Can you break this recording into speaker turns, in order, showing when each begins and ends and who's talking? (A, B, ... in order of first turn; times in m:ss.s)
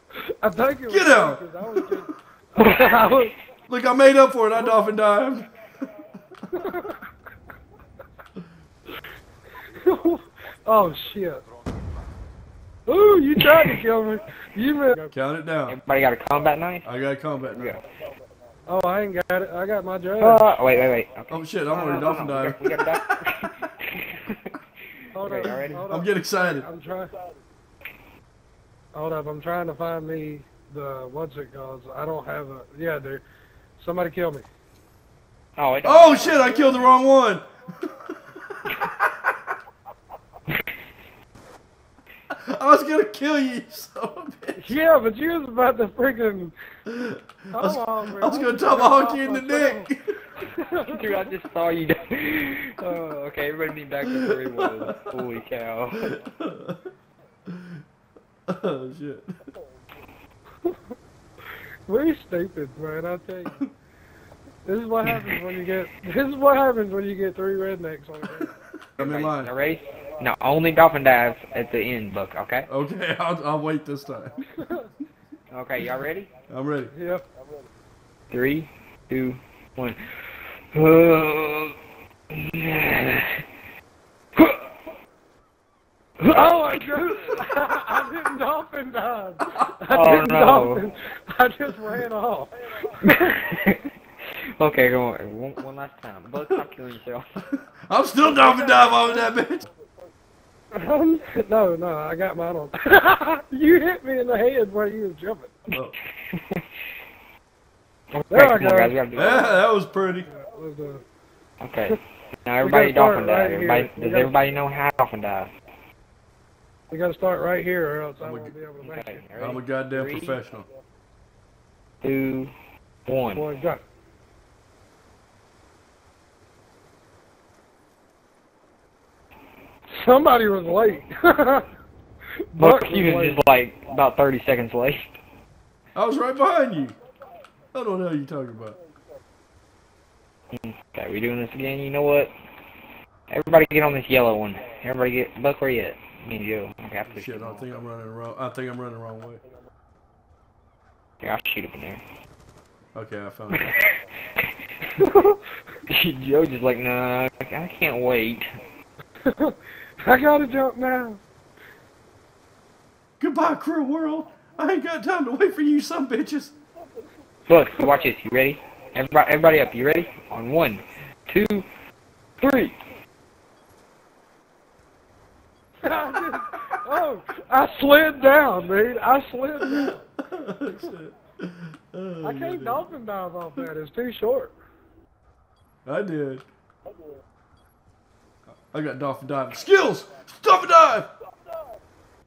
0:00.4-0:03.3 A
0:00.9-0:02.1 B
0:02.6-0:03.0 C
0:03.7-0:05.5 B
0:04.6-0:04.9 A
0:06.5-0:07.0 A
0:09.8-0:11.4 A
0:12.9-0:15.1 A
0:13.4-0:13.8 C
0:15.1-0:15.8 B
0:15.7-0:16.9 C
0:16.8-0:17.8 B
0:17.5-0:17.8 C
0:18.7-0:20.6 A
0:20.2-0:24.5 C
0:21.3-0:22.9 B
0:21.8-0:22.1 A
0:25.1-0:27.1 A
0:25.2-0:25.9 C
0:25.4-0:26.7 B
0:28.9-0:33.2 A
0:33.8-0:34.5 A
0:35.6-0:36.8 C
0:35.8-0:39.1 B
0:36.3-0:36.8 A
0:42.3-0:44.8 B
0:44.6-0:46.5 A
0:46.9-0:50.2 B
0:47.5-0:51.2 A
0:50.8-0:56.2 C
0:54.0-0:55.2 B
0:56.0-0:56.8 B
0:57.5-0:57.8 B
0:58.5-0:59.3 B
1:01.9-1:03.6 A
1:04.6-1:08.5 A
1:09.0-1:09.5 B
1:09.0-1:12.7 C
1:12.7-1:14.4 B
1:14.6-1:14.9 A
1:15.5-1:16.3 C
1:16.5-1:16.9 B
1:16.9-1:17.2 A
1:18.3-1:21.8 C
1:22.3-1:23.4 C
1:24.4-1:24.7 C
1:26.2-1:33.1 A
1:29.5-1:29.7 B
1:29.9-1:30.8 C
1:33.0-1:33.8 C
1:34.6-1:37.2 C
1:37.5-1:39.7 B
1:38.2-1:39.3 A
1:40.7-1:45.6 A
1:46.3-1:46.6 C
1:48.1-1:49.6 C
1:48.3-1:49.0 A
1:49.1-1:50.3 B
1:50.2-1:51.0 A
1:51.6-1:55.5 C
1:52.6-1:54.4 A
1:56.9-1:59.3 A
1:58.2-1:58.6 B
1:58.8-2:00.4 C
1:59.4-2:00.7 B
2:02.0-2:02.5 C
2:03.1-2:03.4 C
2:03.3-2:03.8 A
2:09.9-2:11.7 A
2:12.6-2:13.4 A
2:12.6-2:15.1 C
2:16.0-2:17.0 B
2:17.7-2:18.8 B
2:20.5-2:22.3 C
2:23.3-2:27.7 C
2:27.1-2:29.4 B
2:31.2-2:32.0 C
2:33.0-2:33.7 B
2:33.5-2:35.0 C
2:35.0-2:35.4 A
2:35.9-2:38.4 C
2:39.2-2:41.2 A
2:43.2-2:46.5 B
2:47.5-2:51.7 C
2:52.4-2:52.8 C
2:55.8-3:00.0 A
2:59.6-3:02.9 B
3:02.2-3:04.6 A
3:05.9-3:06.4 B
3:08.7-3:11.1 B